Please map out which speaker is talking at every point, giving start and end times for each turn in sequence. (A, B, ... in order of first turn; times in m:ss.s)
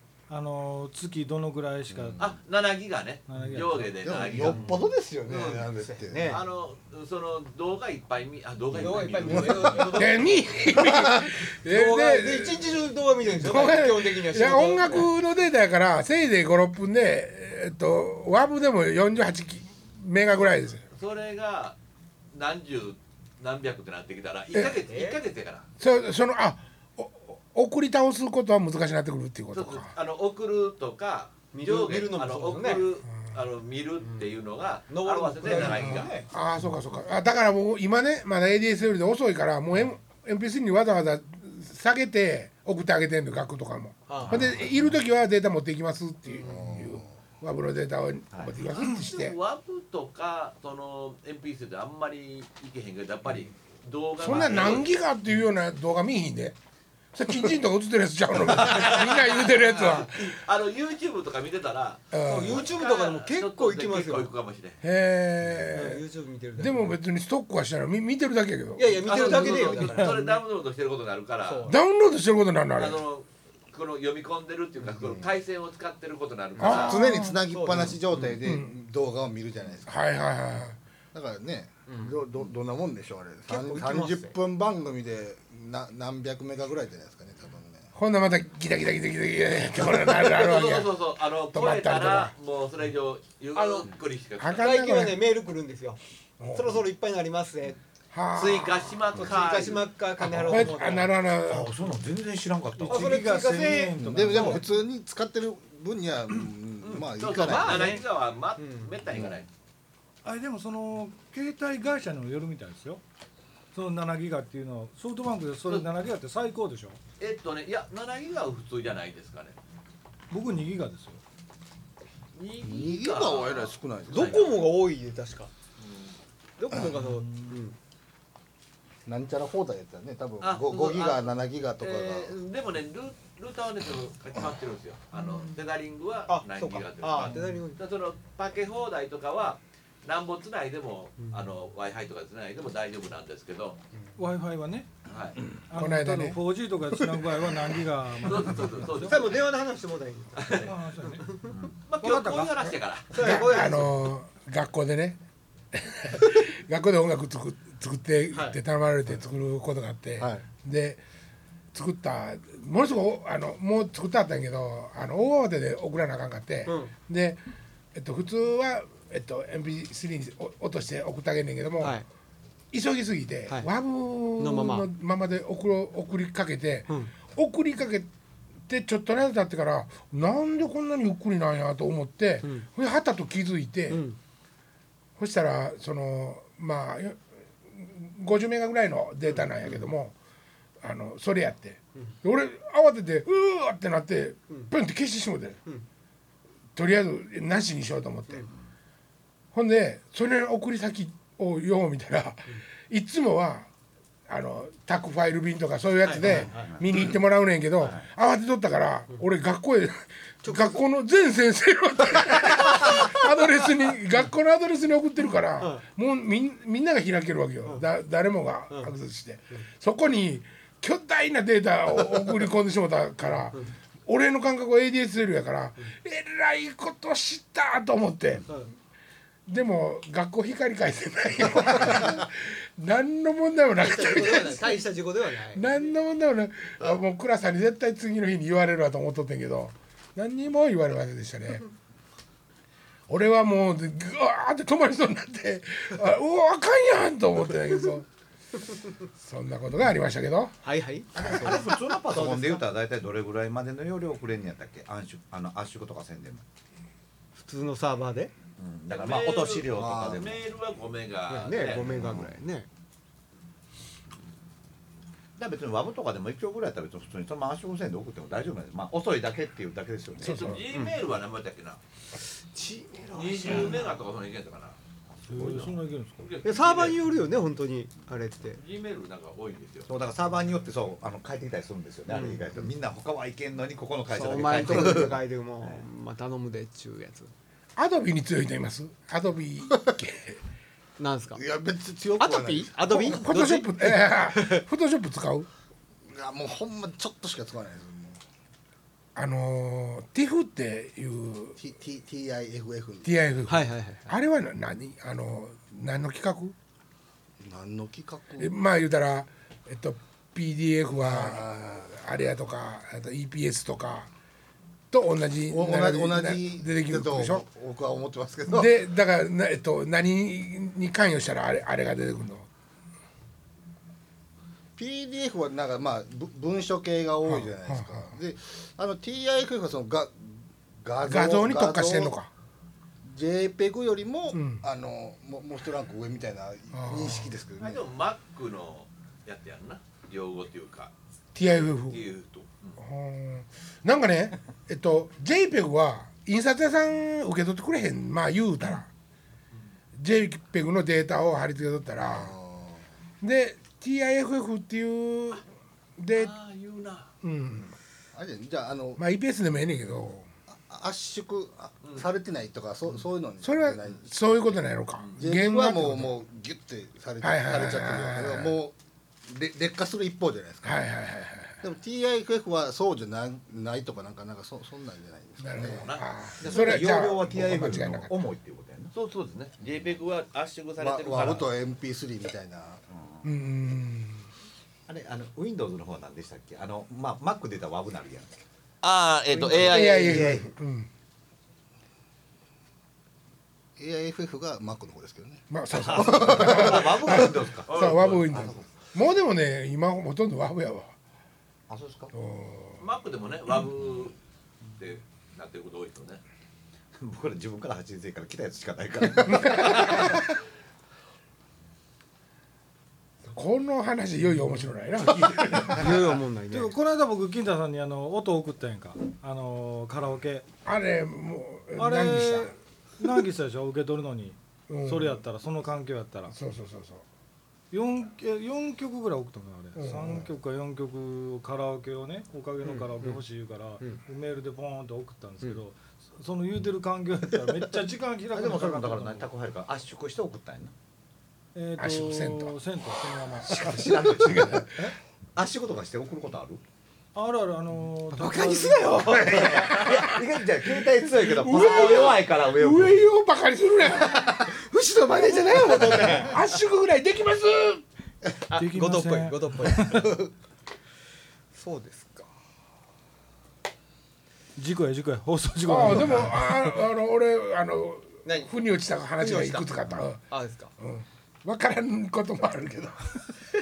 0:00.3-0:02.2 A
0:01.9-0:02.3 B
0:02.2-0:05.7 C
0:03.3-0:03.9 A
0:04.0-0:06.4 B
0:04.4-0:04.8 D
0:05.4-0:06.4 D
0:06.3-0:10.1 C
0:08.7-0:10.4 D
0:09.3-0:09.8 B
0:09.9-0:12.7 E
0:11.6-0:15.1 D
0:13.3-0:20.8 E
0:20.9-0:21.8 C
0:22.3-0:25.7 C
0:24.8-0:25.2 D
0:25.8-0:29.9 E
0:29.5-0:36.2 C
0:31.5-0:32.9 D
0:34.0-0:34.3 D
0:34.9-0:36.3 D
0:35.6-0:49.4 E
0:44.1-0:44.5 D
0:44.3-0:44.8 F
0:46.4-0:47.1 B
0:48.8-0:54.9 C
0:54.2-0:56.6 E
0:57.1-1:00.4 E
0:58.6-1:04.8 C
1:02.1-1:02.7 E
1:02.2-1:04.3 D
1:04.8-1:06.0 E
1:05.7-1:07.0 D
1:06.6-1:09.6 E
1:08.8-1:10.4 D
1:09.0-1:11.7 C
1:11.4-1:11.8 D
1:11.7-1:13.0 E
1:12.8-1:17.0 C
1:14.9-1:15.3 B
1:16.6-1:18.4 D
1:16.6-1:17.4 E
1:16.6-1:19.9 B
1:18.4-1:18.7 E
1:19.9-1:20.8 E
1:21.1-1:27.9 B
1:21.9-1:22.2 D
1:23.5-1:24.4 D
1:28.0-1:30.9 E
1:30.1-1:34.8 C
1:31.5-1:32.3 E
1:33.6-1:33.9 D
1:34.4-1:35.2 E
1:34.6-1:36.0 D
1:36.4-1:36.8 E
1:36.5-1:37.8 D
1:38.1-1:39.0 E
1:38.4-1:39.9 C
1:39.2-1:41.1 D
1:40.4-1:41.8 E
1:41.5-1:43.4 F
1:42.8-1:44.8 A
1:42.8-1:44.6 D
1:44.0-1:48.0 B
1:46.8-1:49.5 C
1:47.4-1:48.0 D
1:48.6-1:49.0 D
1:49.1-1:49.4 B
1:50.2-1:53.0 A
1:53.7-1:57.0 A
1:57.2-1:59.6 C
2:00.3-2:01.2 A
2:02.4-2:04.6 C
2:02.6-2:04.5 B
2:04.1-2:05.5 D
2:05.8-2:06.2 C
2:06.6-2:07.8 D
2:06.8-2:07.6 A
2:09.1-2:12.3 B
2:10.4-2:23.8 C
2:15.2-2:15.5 D
2:16.3-2:17.8 D
2:17.3-2:17.6 A
2:21.2-2:21.5 D
2:24.2-2:24.9 A
2:25.1-2:25.4 C
2:25.7-2:29.2 A
2:25.7-2:26.4 E
2:28.2-2:29.5 C
2:29.0-2:31.5 D
2:30.4-2:30.7 C
2:30.7-2:31.3 A
2:31.9-2:33.8 C
2:32.0-2:32.6 A
2:33.1-2:34.0 D
2:33.2-2:35.2 E
2:35.7-2:41.0 E
2:38.3-2:38.6 D
2:40.2-2:40.4 B
2:41.7-2:47.4 E
2:46.7-2:46.9 D
2:48.0-2:52.0 E
2:51.8-2:52.1 D
2:52.7-2:58.1 E
2:54.4-2:54.9 D
2:56.9-2:57.1 D
2:58.7-3:04.0 E
3:02.4-3:02.7 D
3:03.9-3:04.2 D
3:05.2-3:10.2 E
3:09.4-3:09.8 D
3:10.8-3:15.6 E
3:16.8-3:18.4 E
3:19.5-3:23.7 E
3:24.3-3:48.4 E
3:26.0-3:26.8 D
3:26.4-3:26.8 F
3:30.4-3:30.8 D
3:32.6-3:33.2 D
3:35.6-3:35.8 D
3:49.5-3:54.8 E
3:53.8-3:55.7 D
3:55.5-4:01.6 E
4:03.1-4:08.1 E
4:09.2-4:10.6 E
4:10.6-4:12.6 D
4:11.2-4:16.4 F
4:17.4-4:18.3 D
4:18.6-4:20.3 F
4:18.9-4:21.8 C
4:19.7-4:20.4 B
4:21.3-4:22.7 D
4:21.8-4:22.3 F
4:25.4-4:30.5 F
4:30.2-4:30.6 E
4:30.2-4:31.8 C
4:30.7-4:31.0 D
4:32.4-4:33.9 D
4:33.1-4:34.8 C
4:35.3-4:36.3 A
4:35.3-4:35.7 F
4:36.2-4:37.0 C
4:36.4-4:38.6 D
4:38.6-4:39.9 C
4:39.9-4:45.8 F
4:42.1-4:42.7 D
4:44.1-4:47.3 D
4:47.8-4:50.4 E
4:51.0-4:51.4 D
4:51.4-4:53.2 B
4:52.2-4:54.6 D
4:52.9-4:55.5 E
4:56.1-4:58.2 B
4:59.2-5:01.6 E
5:01.6-5:03.1 B
5:03.0-5:06.6 E
5:03.5-5:04.1 D
5:07.4-5:08.5 B
5:08.4-5:14.1 E
5:11.0-5:12.0 B
5:14.9-5:17.5 E
5:15.5-5:18.7 B
5:18.5-5:22.5 E
5:24.8-5:32.1 B
5:27.2-5:28.1 E
5:31.0-5:32.3 E
5:33.0-5:37.8 B
5:34.3-5:34.6 E
5:36.7-5:37.3 E
5:37.6-5:40.9 C
5:41.4-5:42.0 E
5:41.9-5:42.8 C
5:42.8-5:48.9 E
5:50.0-5:52.3 E
5:52.0-5:52.8 B
5:53.2-5:55.4 E
5:56.0-5:56.3 E
5:56.1-5:57.1 C
5:57.2-5:57.7 E
5:58.1-5:59.0 B
5:59.0-6:00.3 E
6:00.5-6:04.4 B
6:03.4-6:06.2 E
6:05.2-6:08.8 B
6:07.2-6:08.6 E
6:09.3-6:10.8 B
6:10.6-6:11.6 E
6:11.6-6:15.9 B
6:15.4-6:18.1 E
6:15.7-6:16.1 C
6:16.4-6:18.9 F
6:18.9-6:21.5 C
6:20.8-6:22.8 B
6:22.9-6:23.2 F
6:23.2-6:24.2 E
6:24.9-6:28.3 F
6:28.8-6:30.2 C
6:29.4-6:29.6 D
6:29.6-6:30.5 F
6:29.6-6:30.9 E
6:33.8-6:36.6 B
6:35.5-6:40.9 E
6:35.9-6:38.7 F
6:36.4-6:38.3 C
6:41.7-6:42.1 F
6:42.1-6:42.8 E
6:42.8-6:44.2 C
6:44.8-6:46.2 C
6:47.0-6:50.2 F
6:49.3-6:50.2 E
6:53.3-6:56.0 E
6:55.7-6:56.7 D
6:56.5-7:00.5 A
7:00.6-7:02.6 E
7:01.8-7:06.4 A
7:04.7-7:05.2 E
7:06.3-7:07.0 E
7:07.7-7:19.3 A
7:09.8-7:10.3 E
7:12.6-7:13.2 D
7:18.3-7:20.7 F
7:21.6-7:23.9 A
7:21.8-7:22.6 E
7:23.3-7:24.9 E
7:23.4-7:26.6 F
7:27.2-7:29.2 A
7:28.2-7:29.8 D
7:28.3-7:33.0 F
7:29.3-7:30.2 E
7:31.1-7:34.3 E
7:31.2-7:32.2 D
7:34.2-7:34.5 F
7:34.5-7:36.4 D
7:35.2-7:37.8 E
7:35.6-7:36.0 F
7:38.5-7:40.2 D
7:38.6-7:40.2 A
7:41.5-7:42.3 D
7:44.6-7:46.8 A
7:45.6-7:50.2 E
7:48.2-7:48.5 D
7:49.2-7:49.7 D
7:50.3-7:50.7 D
7:50.8-7:53.2 E